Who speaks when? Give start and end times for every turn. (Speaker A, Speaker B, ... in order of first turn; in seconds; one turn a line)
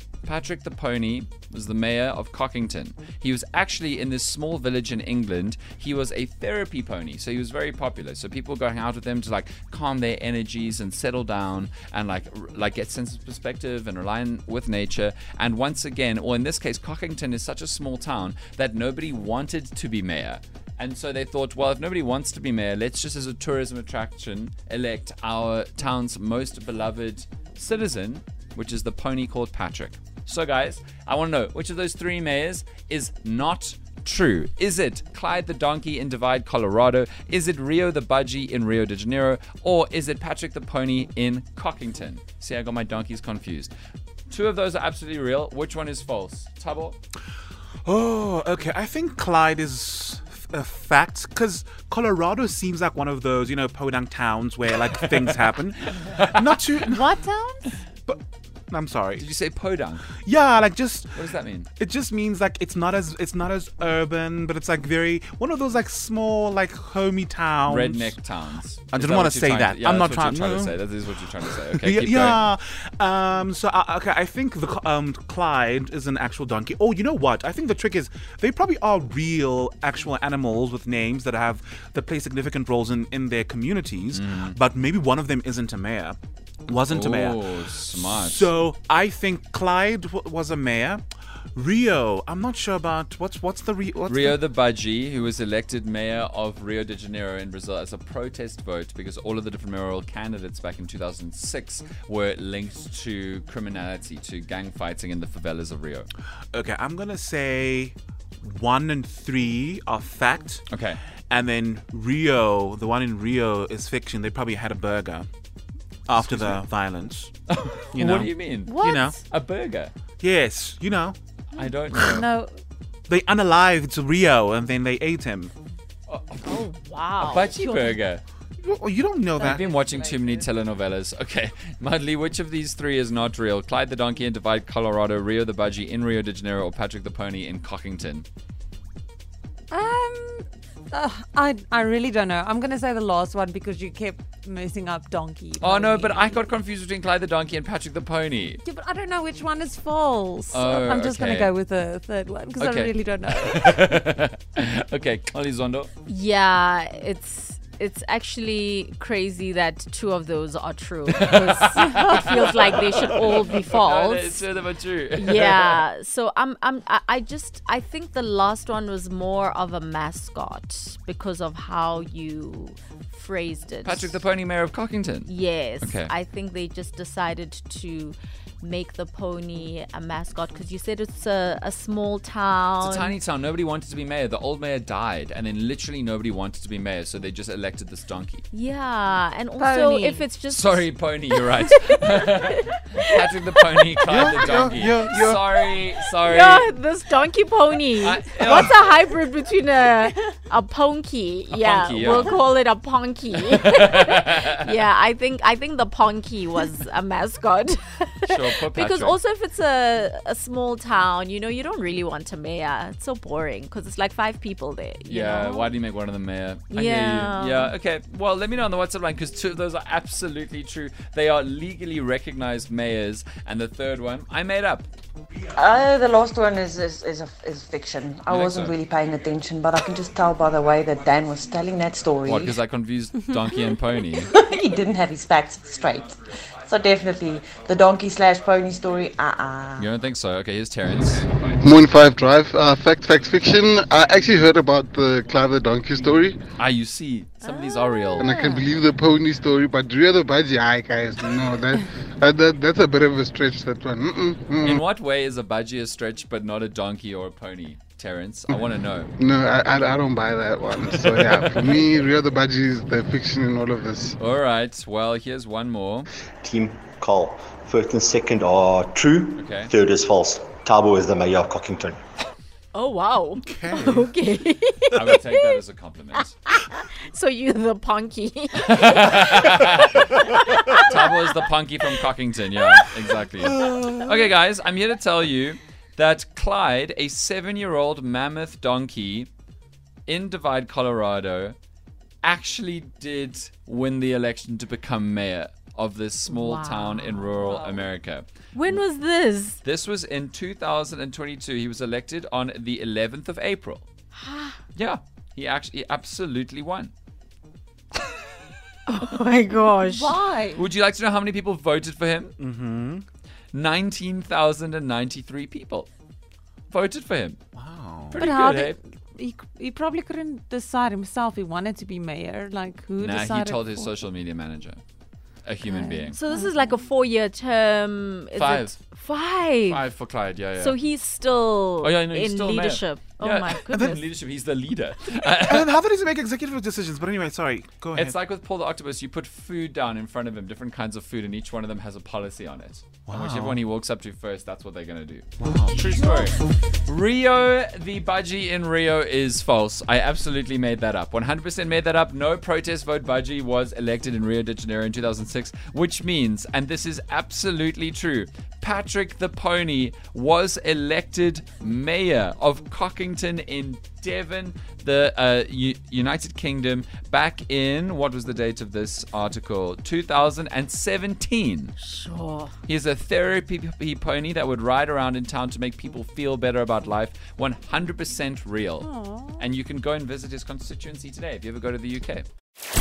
Speaker A: 0.2-43.7
Speaker A: 44.3-47.0
Speaker B: 47.9-57.1
Speaker C: 56.8-57.8
Speaker B: 58.1-59.3
Speaker A: 59.2-60.1
Speaker B: 60.1-68.2
Speaker A: 61.1-61.7
Speaker A: 67.7-72.4
Speaker B: 68.9-91.0
Speaker A: 84.1-84.6
Speaker A: 86.9-88.5
Speaker B: 91.5-94.4
Speaker A: 94.1-106.1
Speaker B: 106.5-110.6
Speaker A: 110.7-111.0
Speaker B: 111.3-115.3
Speaker B: 116.1-117.3
Speaker A: 116.1-116.6
Speaker A: 117.5-119.9
Speaker B: 117.9-119.2
Speaker D: 118.7-119.2
Speaker B: 120.2-121.2
Speaker A: 121.5-122.3
Speaker C: 121.5-122.6
Speaker B: 123.1-125.5
Speaker A: 126.1-126.6
Speaker D: 126.5-128.0
Speaker A: 127.2-128.2
Speaker B: 128.6-129.8
Speaker A: 129.4-138.3
Speaker C: 130.0-130.2
Speaker C: 139.7-146.4
Speaker A: 145.6-148.6
Speaker C: 148.7-153.9
Speaker A: 150.5-151.5
Speaker A: 152.6-155.9
Speaker D: 156.1-164.5
Speaker A: 161.1-165.8
Speaker C: 161.9-162.5
Speaker D: 165.1-174.2
Speaker A: 173.8-176.1
Speaker D: 175.3-183.2
Speaker A: 182.8-188.4
Speaker D: 188.5-194.3
Speaker C: 189.6-190.3
Speaker A: 190.5-196.7
Speaker B: 194.1-195.7
Speaker D: 196.2-215.8
Speaker A: 198.0-198.9
Speaker A: 201.5-202.4
Speaker A: 203.5-204.8
Speaker A: 208.3-209.2
Speaker A: 215.1-224.9
Speaker D: 216.7-217.8
Speaker E: 225.6-232.5
Speaker A: 228.3-228.8
Speaker A: 232.2-234.3
Speaker C: 233.2-233.5
Speaker E: 234.5-239.9
Speaker A: 239.8-241.3
Speaker F: 241.6-246.4
Speaker A: 246.6-248.3
Speaker D: 247.4-248.7
Speaker F: 248.2-254.8
Speaker A: 254.6-259.1
Speaker F: 259.2-264.1
Speaker A: 261.1-261.8
Speaker A: 264.2-266.1
Speaker G: 266.4-272.0
Speaker A: 269.4-269.7
Speaker D: 272.7-275.6
Speaker B: 273.4-274.1
Speaker A: 274.9-276.4
Speaker D: 276.5-281.4
Speaker A: 278.6-280.2
Speaker A: 280.8-289.3
Speaker D: 282.6-282.9
Speaker B: 283.6-284.1
Speaker A: 290.1-291.6
Speaker A: 292.2-298.8
Speaker D: 296.3-297.8
Speaker D: 298.5-299.6
Speaker A: 299.6-303.9
Speaker D: 304.1-304.6
Speaker A: 304.8-306.9
Speaker D: 308.9-310.2
Speaker C: 309.7-310.7
Speaker A: 310.5-312.4
Speaker B: 312.4-313.1
Speaker A: 313.5-315.9
Speaker A: 316.7-317.4
Speaker B: 317.6-318.3
Speaker A: 318.1-318.8
Speaker C: 318.1-324.0
Speaker A: 323.0-324.8
Speaker A: 325.4-326.2
Speaker D: 325.6-329.9
Speaker C: 326.3-326.8
Speaker A: 328.4-328.8
Speaker A: 329.7-330.8
Speaker D: 330.6-334.0
Speaker A: 331.8-335.8
Speaker B: 333.7-334.0
Speaker B: 335.3-338.2
Speaker A: 337.9-371.8
Speaker B: 343.1-343.6
Speaker B: 345.4-346.0
Speaker D: 371.8-372.5
Speaker A: 372.7-382.3
Speaker C: 378.8-379.4